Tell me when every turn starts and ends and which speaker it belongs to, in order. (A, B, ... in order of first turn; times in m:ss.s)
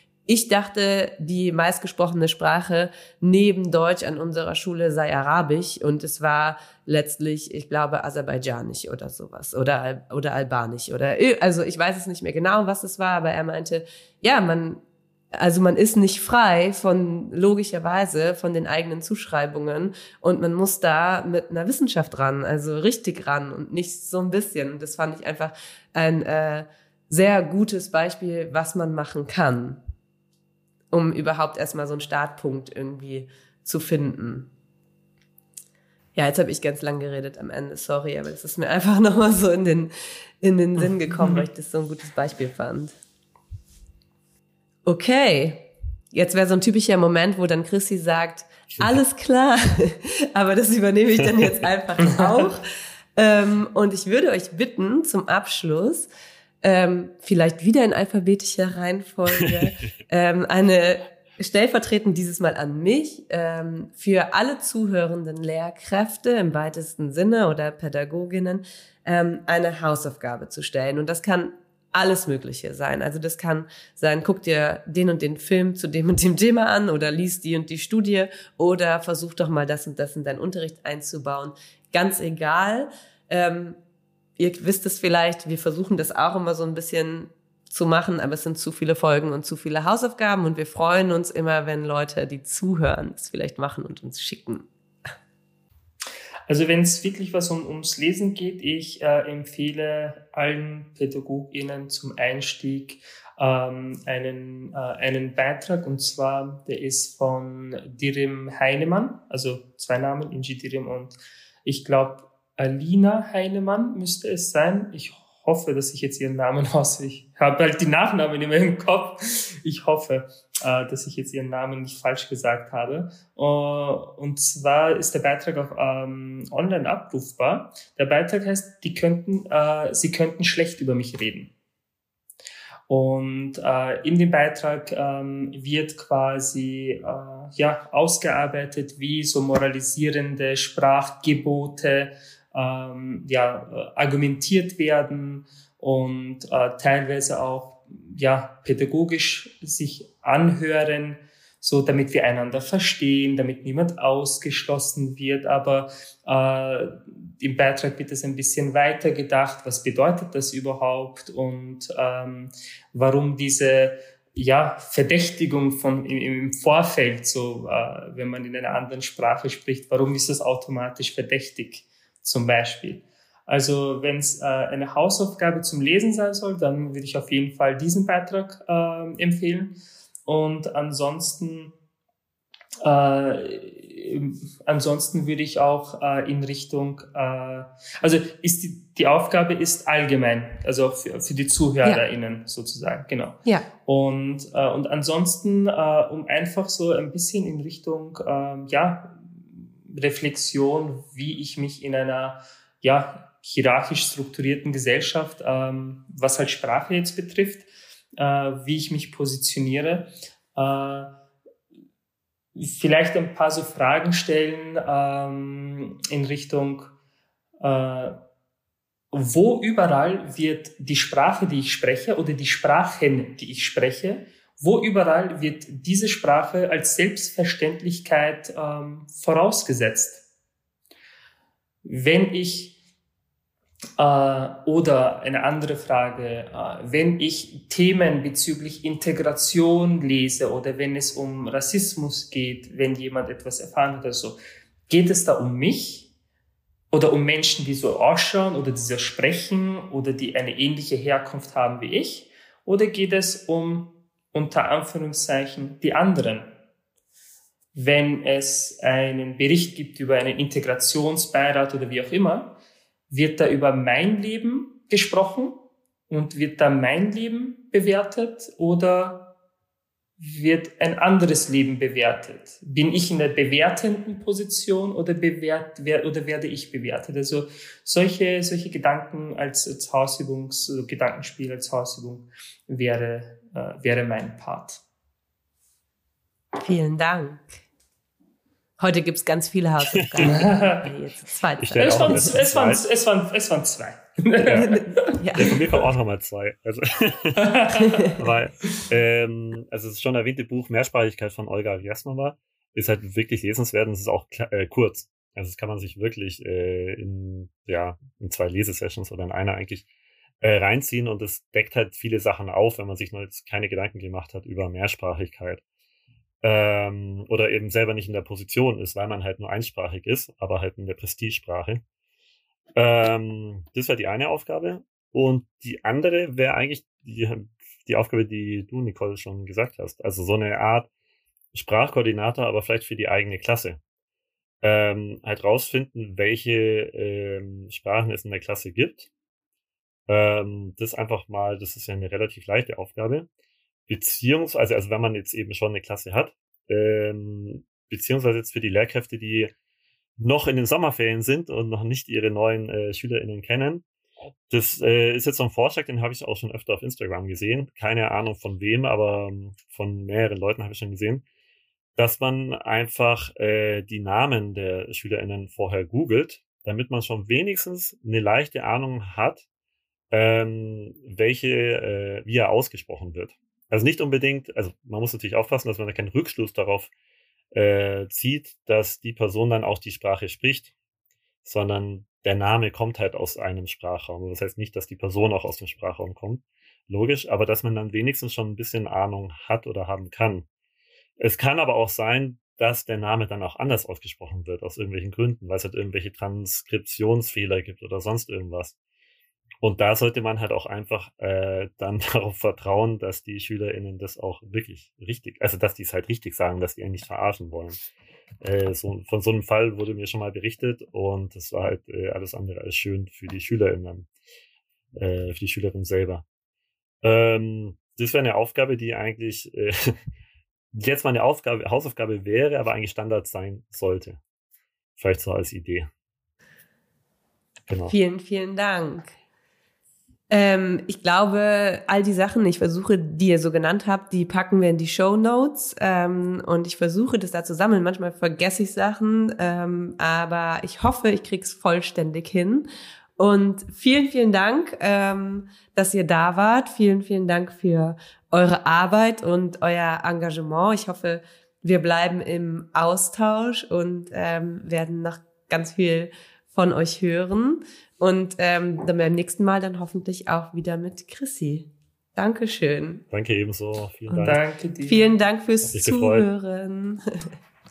0:00.3-0:14.8 A
0:15.3-0:29.8 A
0:30.9-0:34.5 A
0:36.2-0:42.9 A
0:44.8-0:52.6 A
0:52.0-0:52.5 B
0:53.2-0:56.1 A
0:56.6-1:23.8 A
1:24.4-1:34.7 A
1:36.5-2:11.5 B
2:12.9-3:01.7 B
3:02.8-3:19.3 B
3:19.8-3:31.2 B
3:32.6-3:36.9 B
3:37.6-3:38.2 B
3:39.1-3:50.2 B
3:51.8-3:52.8 B
3:54.0-4:06.1 B
4:06.9-4:16.5 B
4:17.7-4:22.6 B
4:23.1-4:29.3 B
4:30.2-4:44.8 B
4:46.6-4:47.4 A
4:48.8-4:52.4 A
4:49.9-4:50.4 C
4:50.2-4:50.8 B
4:51.6-4:52.8 C
4:51.7-4:55.2 B
4:54.4-4:54.8 C
4:54.5-4:55.6 A
4:55.3-4:57.6 C
4:57.4-4:58.2 B
4:57.8-4:58.2 A
4:58.1-5:09.8 C
5:10.4-5:15.6 C
5:16.4-5:21.8 C
5:22.8-5:30.9 C
5:31.5-5:33.8 C
5:34.6-5:39.1 C
5:40.1-5:43.3 C
5:43.9-5:49.5 C
5:50.2-5:53.8 C
5:54.5-6:01.2 C
6:02.0-6:09.4 C
6:10.1-6:16.9 C
6:17.5-6:20.7 C
6:21.4-6:30.4 C
6:31.2-6:38.8 C
6:39.6-6:47.8 C
6:48.4-6:54.1 C
6:55.0-6:56.2 C
6:57.0-7:00.0 C
7:00.7-7:04.2 C
7:05.0-7:05.9 C
7:07.7-7:08.0 C
7:07.8-7:09.1 A
7:10.3-7:22.6 A
7:23.2-7:43.0 A
7:43.1-7:44.4 C
7:44.1-7:47.2 A
7:44.2-7:45.1 B
7:45.7-7:46.3 C